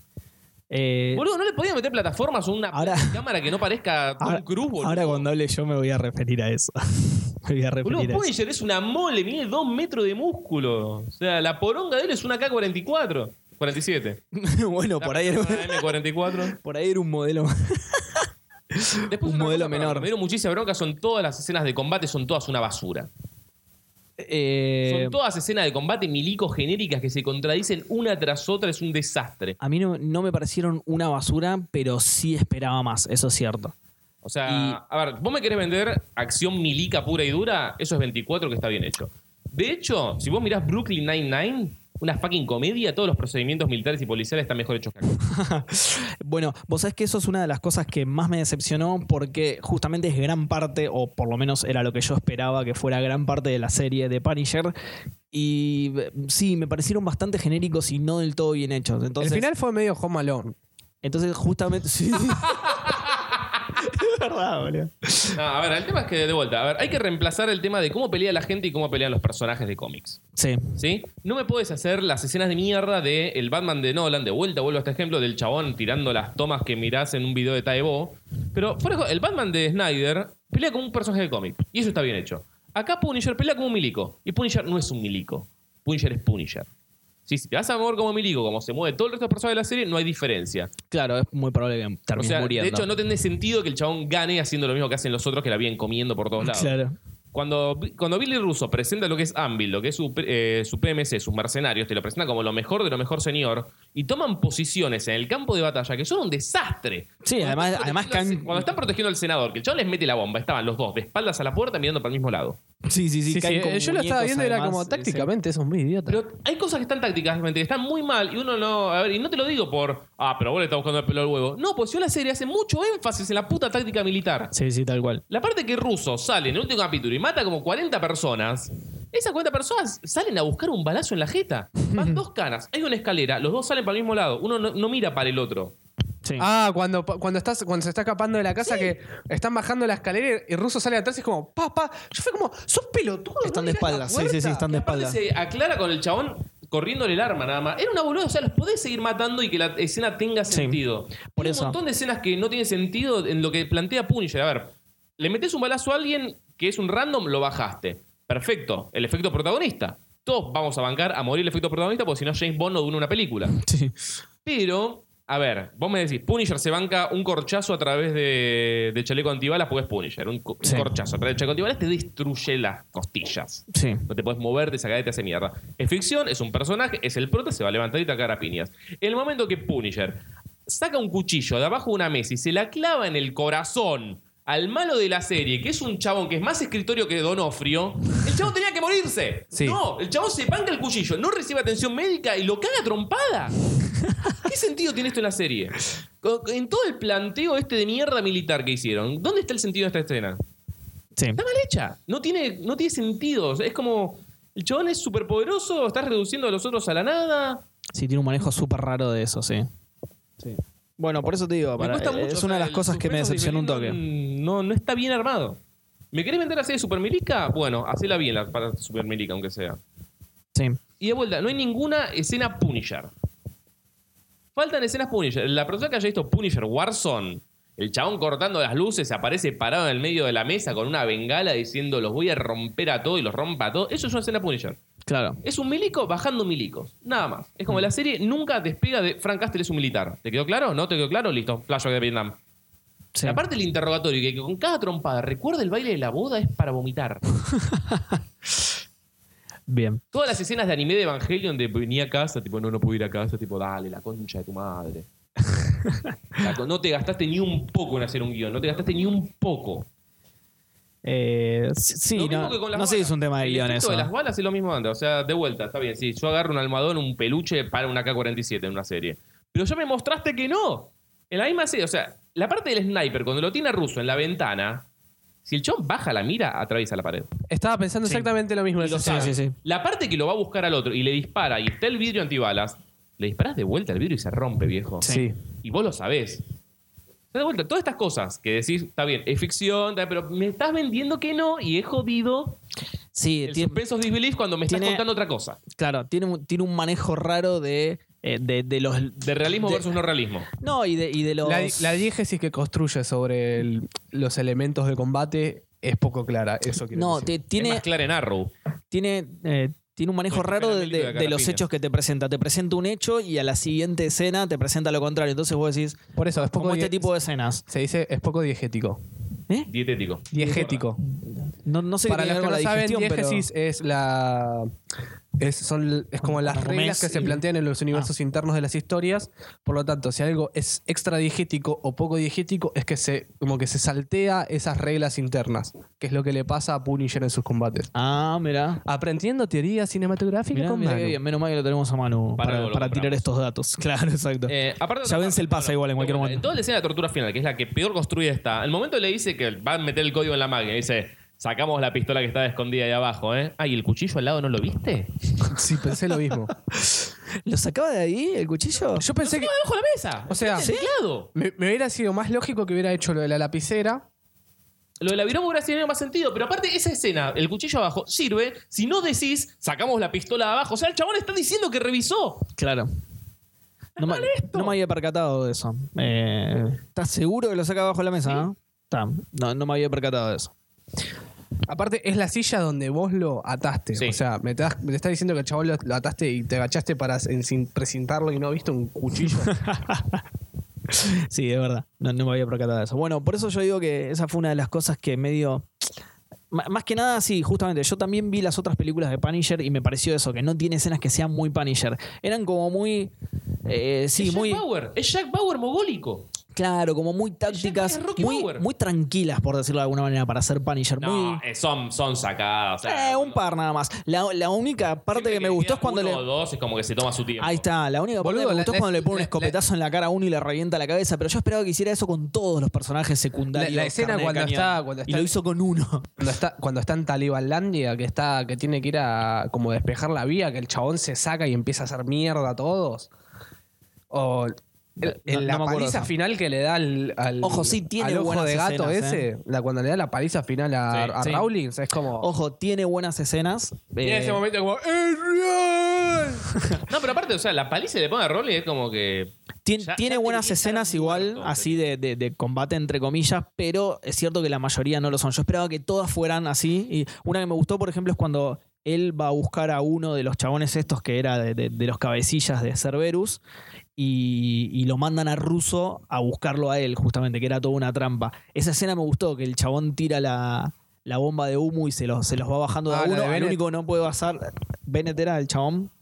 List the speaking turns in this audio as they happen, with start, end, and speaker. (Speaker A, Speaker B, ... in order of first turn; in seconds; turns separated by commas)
Speaker A: 0.7-1.2, Speaker B: 1.1-5.3, Speaker A: 2.7-3.2, Speaker A: 4.2-8.2, Speaker B: 7.8-14.2, Speaker A: 14.3-20.1, Speaker B: 15.0-16.6, Speaker B: 19.1-23.1, Speaker A: 24.2-25.2, Speaker B: 24.9-29.6, Speaker A: 29.6-33.7, Speaker B: 34.2-45.2, Speaker A: 34.4-34.8, Speaker A: 45.2-54.7, Speaker A: 55.3-59.5, Speaker C: 59.2-60.5, Speaker A: 61.0-62.9, Speaker B: 62.5-63.2, Speaker A: 63.8-65.4, Speaker B: 65.3-70.2, Speaker A: 70.4-70.7, Speaker B: 70.8-86.7, Speaker B: 87.3-90.7, Speaker A: 90.9-92.9, Speaker B: 92.2-96.7, Speaker A: 96.4-97.0, Speaker B: 97.3-112.6, Speaker A: 107.2-108.8, Speaker A: 112.8-115.3, Speaker C: 113.3-116.2, Speaker B: 116.1-124.5, Speaker A: 124.5-125.2, Speaker B: 125.3-135.7, Speaker A: 131.9-132.2, Speaker C: 136.4-144.7, Speaker A: 138.6-138.9, Speaker A: 143.4-145.2, Speaker B: 144.7-163.6, Speaker A: 150.5-150.8, Speaker A: 151.4-151.8, Speaker A: 163.5-164.0, Speaker B: 164.4-193.6, Speaker A: 170.6-170.9, Speaker A: 173.7-174.0, Speaker C: 189.5-189.8, Speaker B: 194.4-200.4, Speaker B: 201.4-207.6, Speaker A: 207.9-209.7, Speaker A: 210.4-214.0, Speaker B: 211.8-215.6, Speaker B: 216.1-219.8, Speaker A: 220.5-220.8, Speaker B: 221.0-223.1, Speaker B: 224.6-234.8, Speaker A: 235.1-235.4, Speaker B: 235.4-242.4, Speaker A: 243.1-243.4, Speaker B: 243.2-247.4, Speaker A: 247.5-248.2, Speaker A: 249.7-250.0, Speaker B: 250.1-255.1, Speaker A: 255.5-256.4, Speaker B: 256.4-259.9, Speaker A: 261.0-264.1, Speaker B: 262.1-274.9, Speaker B: 275.4-277.3, Speaker C: 277.5-279.3, Speaker B: 278.8-285.1, Speaker A: 279.0-279.5, Speaker A: 285.0-285.2, Speaker C: 285.0-285.4, Speaker B: 285.6-286.4, Speaker B: 287.3-292.6, Speaker A: 293.1-293.8, Speaker B: 293.4-295.6, Speaker A: 294.7-295.0, Speaker A: 295.7-299.9, Speaker B: 299.2-300.5, Speaker A: 300.6-301.9, Speaker C: 301.4-307.3, Speaker A: 306.9-307.9, Speaker B: 307.6-308.5, Speaker A: 308.9-317.6, Speaker B: 310.3-311.6, Speaker C: 316.1-317.1, Speaker C: 317.7-319.0, Speaker B: 319.7-320.8, Speaker C: 320.3-321.0, Speaker A: 320.4-323.5, Speaker C: 322.1-324.7, Speaker C: 325.4-337.9, Speaker A: 326.2-327.4, Speaker A: 337.9-338.8, Speaker C: 338.9-341.2, Speaker A: 340.5-346.4, Speaker B: 342.4-343.3, Speaker B: 344.5-355.1, Speaker C: 355.4-356.5, Speaker A: 356.7-359.0, Speaker C: 359.0-359.5, Speaker B: 359.2-361.3, Speaker C: 360.3-360.7, Speaker A: 360.6-360.9, Speaker C: 361.3-364.1, Speaker B: 365.0-372.5, Speaker A: 372.6-372.9, Speaker B: 374.0-374.7, Speaker A: 374.0-380.5, Speaker C: 381.7-389.6, Speaker A: 389.5-390.2, Speaker A: 390.9-395.9, Speaker A: 396.5-403.1, Speaker A: 403.6-404.6, Speaker B: 404.1-406.3, Speaker A: 406.5-411.4, Speaker B: 407.5-408.6, Speaker B: 411.0-413.4, Speaker A: 412.8-416.2, Speaker B: 415.1-417.6, Speaker A: 417.4-426.1, Speaker C: 418.2-419.6, Speaker C: 423.5-425.3, Speaker C: 426.2-433.1, Speaker C: 434.1-442.3, Speaker A: 435.0-436.1, Speaker A: 437.4-439.2, Speaker A: 441.0-441.5, Speaker A: 442.2-444.4, Speaker C: 444.0-446.5, Speaker B: 446.9-451.9, Speaker A: 449.6-463.4, Speaker A: 464.0-475.9, Speaker C: 472.9-473.6